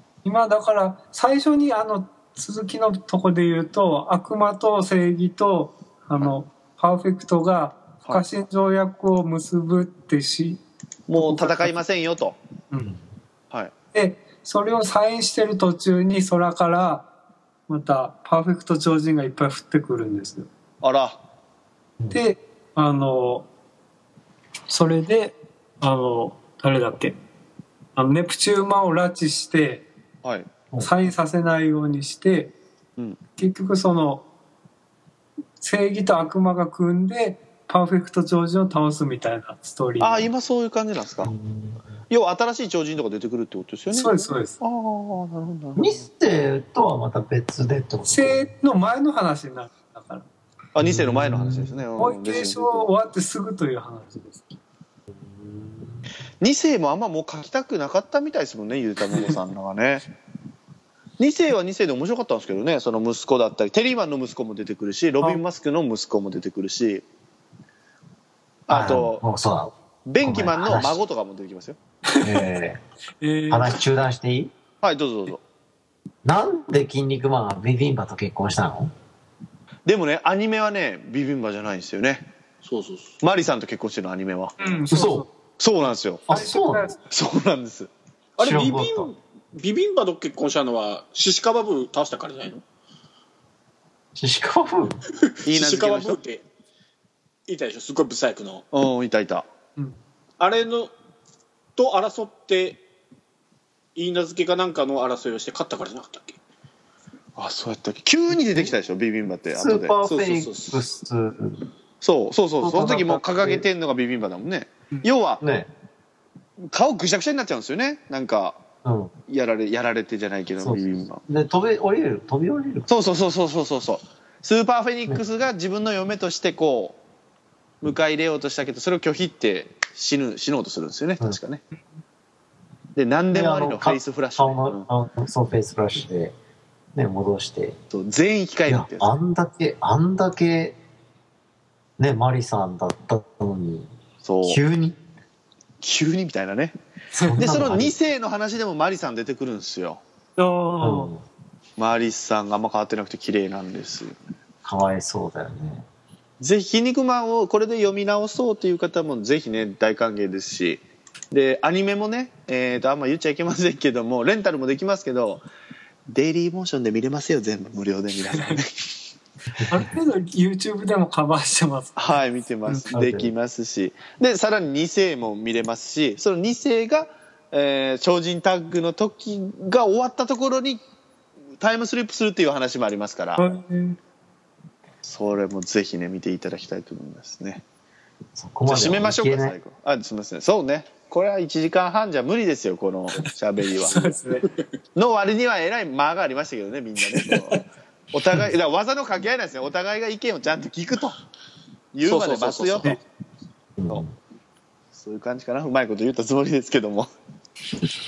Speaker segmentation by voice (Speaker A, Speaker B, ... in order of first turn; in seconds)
Speaker A: 0.2-10.6, 11.2-11.7, 12.7-12.9, 13.9-17.1, 17.7-20.5, 22.1-23.5, 24.7-27.1, 27.9-29.9, 30.8-32.5, 33.4-34.3, 35.6-40.3, 43.9-44.5, 48.0-50.3, 52.0-54.6, 72.1-72.5, 73.2-73.8, 84.6-85.3, 86.3-87.0, 150.4-151.1, 169.7-172.0, 183.4-184.0, 193.8-194.5, 197.1-197.6
Speaker B: 11.1-12.4, 20.8-21.2, 40.0-41.3, 42.1-46.0, 50.7-52.9, 56.4-60.0, 61.2-67.0, 68.7-69.2, 70.0-71.8, 74.8-75.4, 79.9-82.3, 83.2-84.5, 85.6-86.3, 87.1-87.9, 95.5-96.2, 98.7-99.5, 107.4-110.0, 112.0-115.4, 116.6-118.6, 119.3-121.2, 122.9-127.0, 127.8-131.6, 132.9-134.9, 137.9-139.1, 144.2-144.6, 145.8-146.7, 147.3-150.0, 151.8-154.2, 156.4-165.4, 166.1-168.9, 171.9-180.8, 181.6-183.4, 185.0-187.6, 188.7-194.0, 194.9-197.6, 198.1-201.2, 201.9-203.0, 204.9-207.1
Speaker C: 41.2-41.9, 45.8-48.5, 50.8-51.8, 55.1-56.1, 68.7-71.0, 72.2-72.8, 73.5-74.5, 76.2-78.9, 84.9-85.3, 86.3-86.9, 88.4-89.1, 94.2-95.0, 109.5-111.6, 112.6-113.7, 115.4-115.7, 118.8-119.1, 120.6-122.9, 133.3-136.3, 136.9-137.8, 138.7-140.8, 142.0-143.9, 144.4-145.0, 147.1-148.0, 150.8-151.2, 154.6-155.8, 172.9-173.3, 188.4-189.6, 203.8-204.1
Speaker D: 82.6-83.1, 88.4-92.6, 95.5-96.4, 97.5-98.7, 100.4-100.9, 101.8-102.8, 104.0-106.4, 110.0-110.8, 202.0-203.0